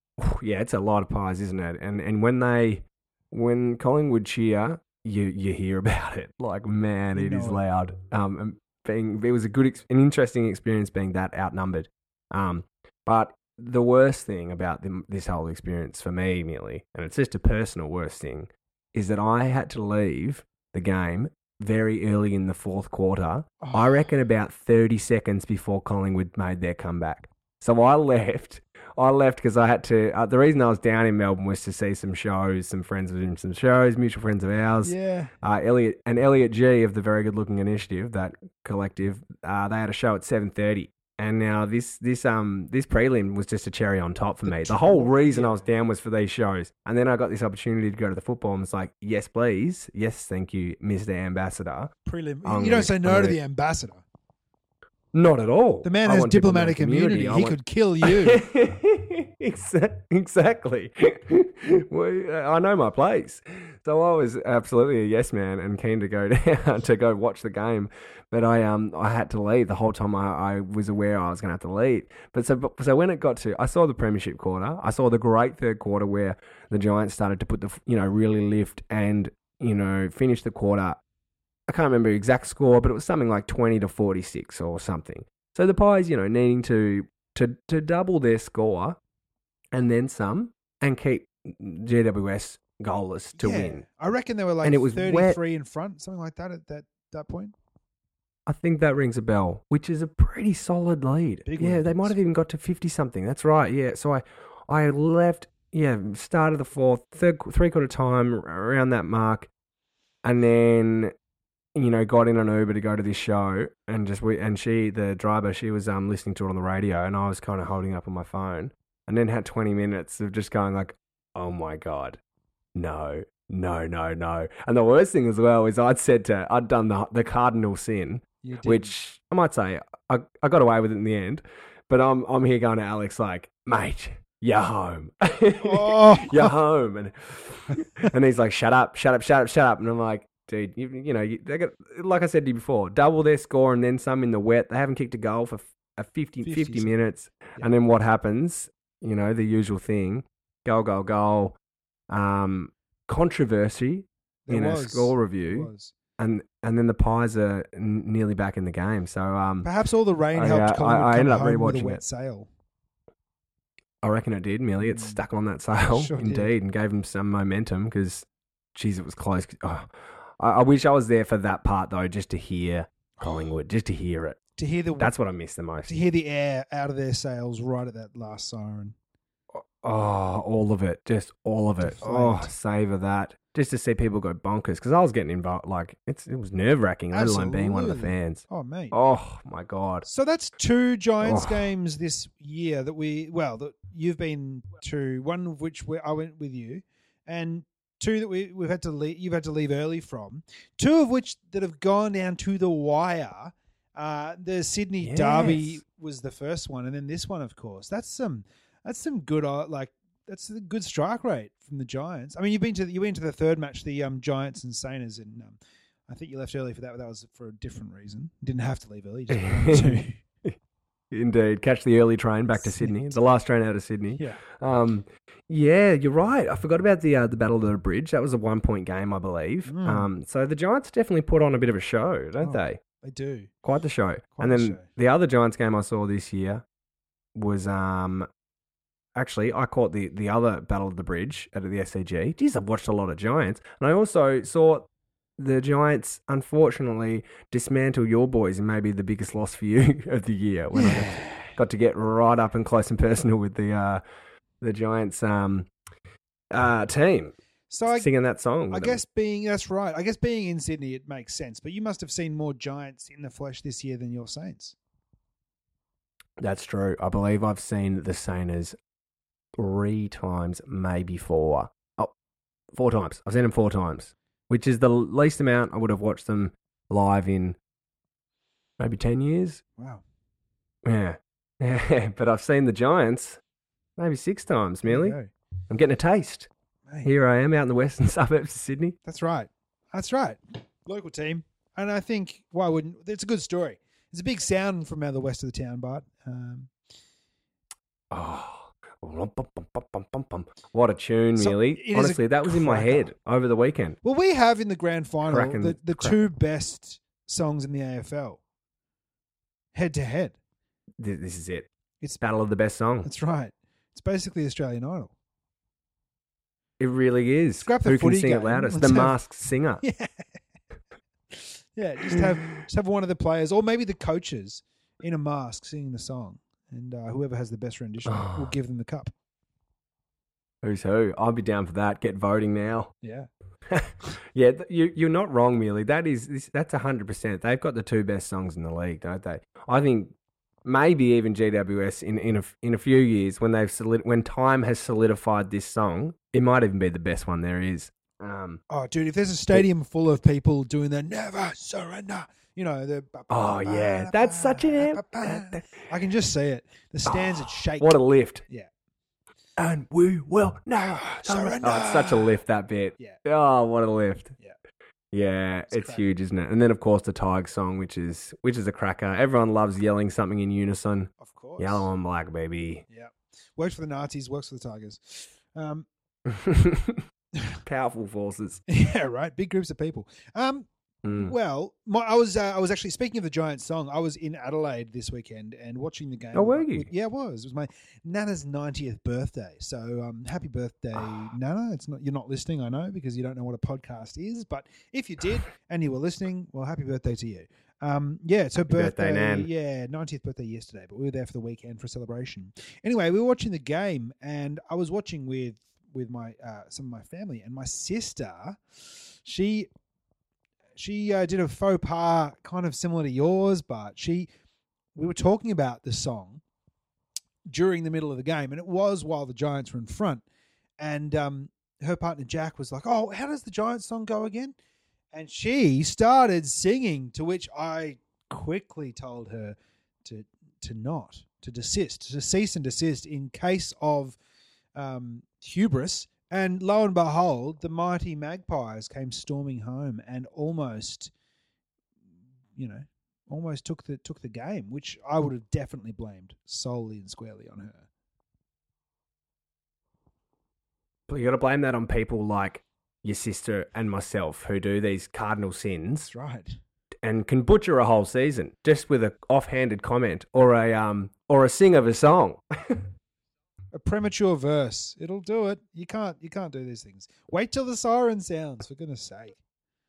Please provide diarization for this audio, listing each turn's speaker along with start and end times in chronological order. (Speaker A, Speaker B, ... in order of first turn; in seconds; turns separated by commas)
Speaker A: 0.2-51.9, Speaker B: 7.1-7.6, Speaker B: 23.6-24.1, Speaker B: 34.8-35.3, Speaker B: 44.5-45.7, Speaker B: 52.0-54.0, Speaker A: 52.5-53.4, Speaker A: 55.1-81.0, Speaker B: 55.8-58.4, Speaker A: 81.7-89.0, Speaker A: 89.7-93.8, Speaker B: 93.4-97.5, Speaker A: 94.6-95.4, Speaker A: 98.5-109.5, Speaker B: 101.5-102.2, Speaker A: 110.2-111.1, Speaker A: 111.8-122.2, Speaker A: 122.8-151.6, Speaker B: 128.4-128.9, Speaker B: 135.6-136.6, Speaker B: 146.4-146.9, Speaker A: 152.1-159.7, Speaker B: 154.5-155.9, Speaker B: 159.6-162.5, Speaker A: 160.3-162.0, Speaker A: 164.0-174.4, Speaker B: 164.8-165.2, Speaker B: 165.9-166.5, Speaker B: 173.2-173.5, Speaker B: 174.6-175.1, Speaker A: 175.0-175.9, Speaker B: 175.9-179.0, Speaker A: 179.5-190.1, Speaker B: 181.8-182.5, Speaker B: 187.1-189.0, Speaker B: 190.1-220.2, Speaker A: 191.2-191.7, Speaker A: 205.0-205.8, Speaker A: 219.3-220.6, Speaker A: 221.1-232.8, Speaker B: 222.5-223.0, Speaker B: 229.7-230.1, Speaker B: 232.4-233.5, Speaker A: 233.6-236.6, Speaker B: 234.4-234.9, Speaker A: 237.3-238.3, Speaker A: 239.2-254.0, Speaker B: 250.8-251.5, Speaker A: 254.6-255.7, Speaker A: 256.5-259.0, Speaker B: 257.7-258.1, Speaker B: 258.7-264.8, Speaker A: 266.4-268.8, Speaker A: 269.6-272.1, Speaker A: 272.7-277.6, Speaker A: 278.8-279.6, Speaker B: 279.8-280.0, Speaker A: 280.8-283.4, Speaker A: 284.0-285.2, Speaker B: 284.9-285.3, Speaker A: 285.7-286.5, Speaker A: 287.0-289.0, Speaker B: 289.1-296.7, Speaker A: 298.1-304.0, Speaker B: 301.4-303.1, Speaker B: 304.0-308.4, Speaker A: 305.3-306.2, Speaker B: 309.7-310.4, Speaker A: 311.0-311.7, Speaker A: 312.2-313.1, Speaker B: 313.0-315.1, Speaker A: 316.8-319.8, Speaker B: 317.6-319.2, Speaker B: 319.8-320.1, Speaker B: 321.3-329.1, Speaker A: 328.1-328.5, Speaker A: 330.6-332.9, Speaker B: 333.0-333.3, Speaker A: 333.7-348.6, Speaker B: 348.7-358.7, Speaker A: 353.3-355.7, Speaker A: 357.1-358.4, Speaker A: 359.6-364.3, Speaker B: 360.8-362.4, Speaker A: 365.1-372.9, Speaker B: 365.7-366.1, Speaker B: 371.2-371.9, Speaker B: 372.9-375.9, Speaker A: 376.3-377.1, Speaker A: 377.6-378.6, Speaker B: 378.7-408.6, Speaker A: 381.0-381.3, Speaker A: 386.3-386.9, Speaker A: 391.0-391.3, Speaker A: 398.7-399.5, Speaker B: 409.2-409.7, Speaker B: 410.8-414.3, Speaker B: 415.0-416.4, Speaker B: 417.5-420.2, Speaker B: 420.8-424.6, Speaker B: 425.1-434.2, Speaker B: 434.8-441.1, Speaker B: 442.6-447.9, Speaker A: 451.1-456.1, Speaker B: 456.1-456.6, Speaker A: 457.0-462.9, Speaker B: 463.7-469.4